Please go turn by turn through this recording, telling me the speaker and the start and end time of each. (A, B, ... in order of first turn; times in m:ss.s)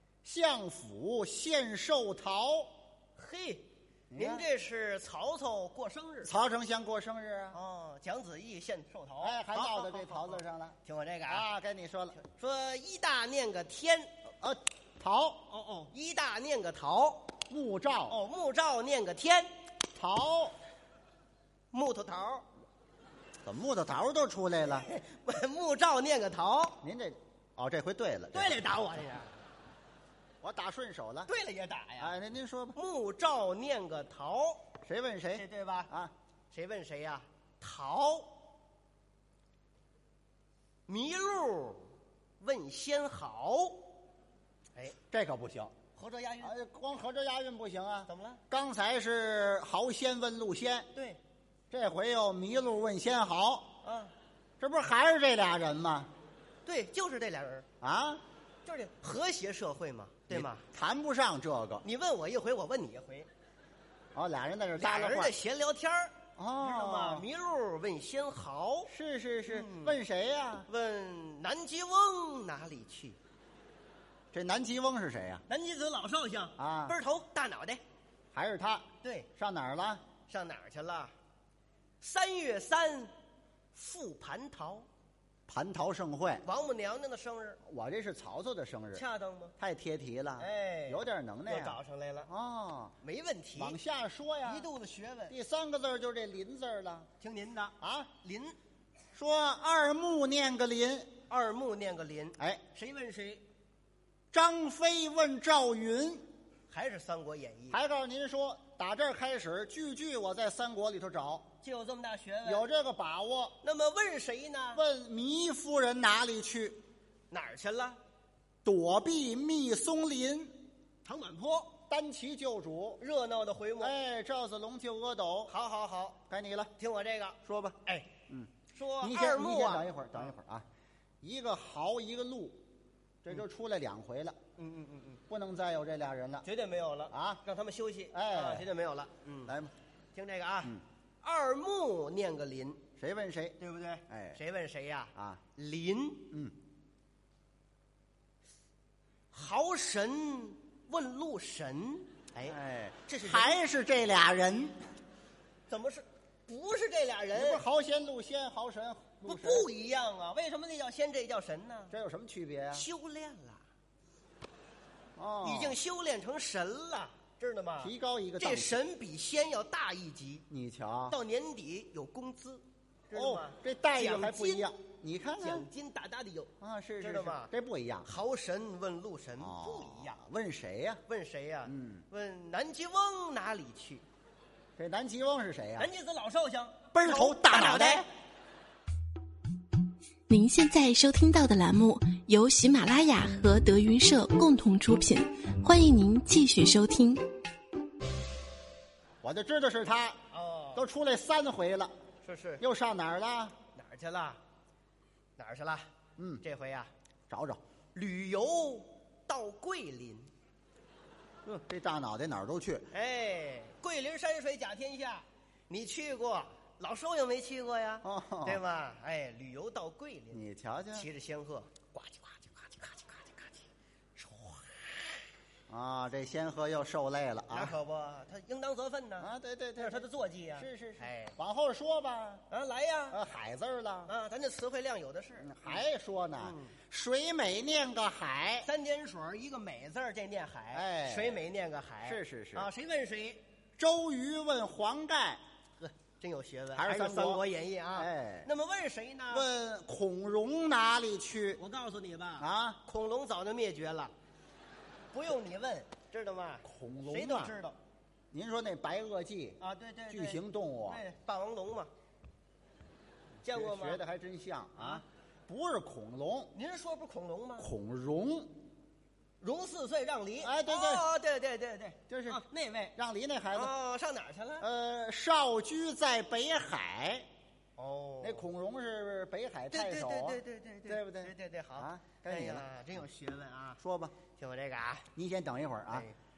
0:00.2-0:02.7 A
0:03.2-0:06.3 B
0:04.1-0:04.5 A
0:06.2-0:07.6 A
0:07.5-0:11.5 B
0:09.2-0:12.2 A
0:12.2-0:14.1 B
0:14.4-0:15.5 A
0:15.5-0:17.3 B
0:17.5-0:18.2 A
0:18.1-0:19.5 B
0:20.0-0:20.6 A
0:21.7-0:22.5 B
0:23.4-0:24.9 A
0:24.6-0:26.8 B
0:26.8-0:28.6 A
0:28.3-0:29.4 B
0:30.4-0:31.3 A
0:31.3-0:32.2 B
0:32.0-0:32.8 A
0:32.7-0:34.7 B
0:34.8-0:36.1 A
0:35.3-0:35.9 B
0:36.5-0:38.4 B
0:40.9-0:44.0 B
0:45.1-0:45.7 A
0:46.0-0:46.6 B
0:46.4-0:50.9 A
0:48.1-0:48.4 B
0:50.9-0:51.2 B
0:51.7-0:53.8 A
0:53.8-0:54.2 B
0:54.6-0:56.1 A
0:56.6-0:57.7 B
0:57.8-0:58.2 A
0:58.6-1:00.7 B
1:00.3-1:01.9 A
1:01.8-1:03.3 B
1:04.1-1:05.4 A
1:04.8-1:08.9 B
1:06.4-1:07.3 A
1:08.9-1:10.7 A
1:09.5-1:10.0 B
1:10.7-1:13.2 B
1:14.3-1:15.4 A
1:15.5-1:17.8 B
1:16.6-1:17.0 A
1:18.3-1:20.0 A
1:19.0-1:19.3 B
1:20.3-1:21.1 B
1:22.0-1:23.1 B
1:23.7-1:24.9 B
1:25.5-1:26.4 A
1:26.4-1:27.6 B
1:27.6-1:29.0 A
1:28.9-1:29.6 B
1:29.6-1:33.0 A
1:30.4-1:32.3 B
1:33.0-1:33.8 B
1:33.6-1:34.7 A
1:34.4-1:35.4 B
1:35.3-1:37.1 A
1:37.2-1:38.6 B
1:37.8-1:38.1 A
1:39.2-1:41.1 A
1:41.3-1:43.4 B
1:44.3-1:46.3 A
1:46.7-1:47.8 B
1:47.7-1:51.5 A
1:51.6-1:52.7 B
1:52.4-1:53.6 A
1:53.6-1:54.8 B
1:54.7-1:56.8 A
1:57.3-1:58.0 B
1:58.6-2:00.6 A
2:01.0-2:01.8 B
2:01.9-2:03.0 A
2:03.0-2:04.0 B
2:03.8-2:05.5 A
2:05.5-2:06.2 B
2:06.3-2:06.7 A
2:06.8-2:08.1 B
2:07.4-2:07.8 A
2:08.7-2:10.4 B
2:09.0-2:10.7 A
2:11.2-2:12.6 A
2:13.2-2:14.4 A
2:14.6-2:15.2 B
2:15.3-2:16.5 A
2:16.4-2:19.6 B
2:17.1-2:17.4 A
2:18.1-2:18.7 A
2:19.5-2:19.7 A
2:20.1-2:22.8 B
2:23.0-2:23.6 A
2:23.6-2:26.3 B
2:24.1-2:24.4 A
2:25.2-2:25.4 A
2:29.3-2:33.6 B
2:32.4-2:34.8 A
2:35.7-2:37.6 B
2:37.3-2:39.7 A
2:39.2-2:41.9 B
2:41.9-2:42.9 A
2:42.7-2:43.7 B
2:45.2-2:45.8 A
2:45.4-2:50.4 B
2:47.8-2:48.8 A
2:50.5-2:51.2 A
2:51.1-2:54.7 B
2:53.1-2:55.7 A
2:55.4-2:57.5 B
2:56.6-2:58.1 A
2:58.0-3:00.2 B
2:59.4-3:01.0 A
3:01.1-3:04.0 B
3:01.6-3:02.0 A
3:04.8-3:05.9 A
3:05.8-3:08.1 B
3:07.0-3:08.1 A
3:10.3-3:17.3 C
3:19.2-3:20.2 A
3:20.3-3:20.9 B
3:20.8-3:21.9 A
3:22.2-3:22.6 B
3:22.6-3:23.6 A
3:23.7-3:24.4 B
3:25.4-3:25.9 B
3:26.2-3:26.4 A
3:26.4-3:26.9 B
3:27.3-3:27.6 A
3:27.9-3:30.3 B
3:31.4-3:32.9 A
3:32.9-3:43.6 B
3:38.0-3:38.6 A
3:40.3-3:41.1 A
3:44.2-3:45.2 B
3:45.7-3:47.8 A
3:47.5-3:51.4 B
3:49.2-3:52.4 A
3:52.5-3:53.2 B
3:53.1-3:54.1 A
3:54.1-3:55.9 B
3:55.4-3:58.7 A
3:56.4-3:56.8 B
3:58.6-4:03.4 B
4:00.7-4:01.5 A
4:02.0-4:02.7 A
4:03.8-4:05.4 A
4:05.8-4:09.5 B
4:06.7-4:08.5 A
4:09.3-4:11.6 A
4:11.6-4:14.1 B
4:12.4-4:12.8 A
4:15.1-4:17.8 B
4:16.6-4:17.6 A
4:18.3-4:21.0 A
4:19.6-4:21.9 B
4:23.4-4:24.0 B
4:23.4-4:26.6 A
4:24.8-4:25.0 B
4:26.5-4:27.7 B
4:27.6-4:28.6 A
4:29.4-4:33.0 B
4:30.4-4:31.1 A
4:32.1-4:32.4 A
4:33.0-4:33.7 A
4:33.5-4:34.7 B
4:34.6-4:37.3 A
4:37.8-4:38.5 B
4:38.2-4:43.0 A
4:39.7-4:43.8 B
4:43.8-4:44.2 A
4:44.4-4:45.1 B
4:45.2-4:46.1 A
4:45.9-4:46.2 B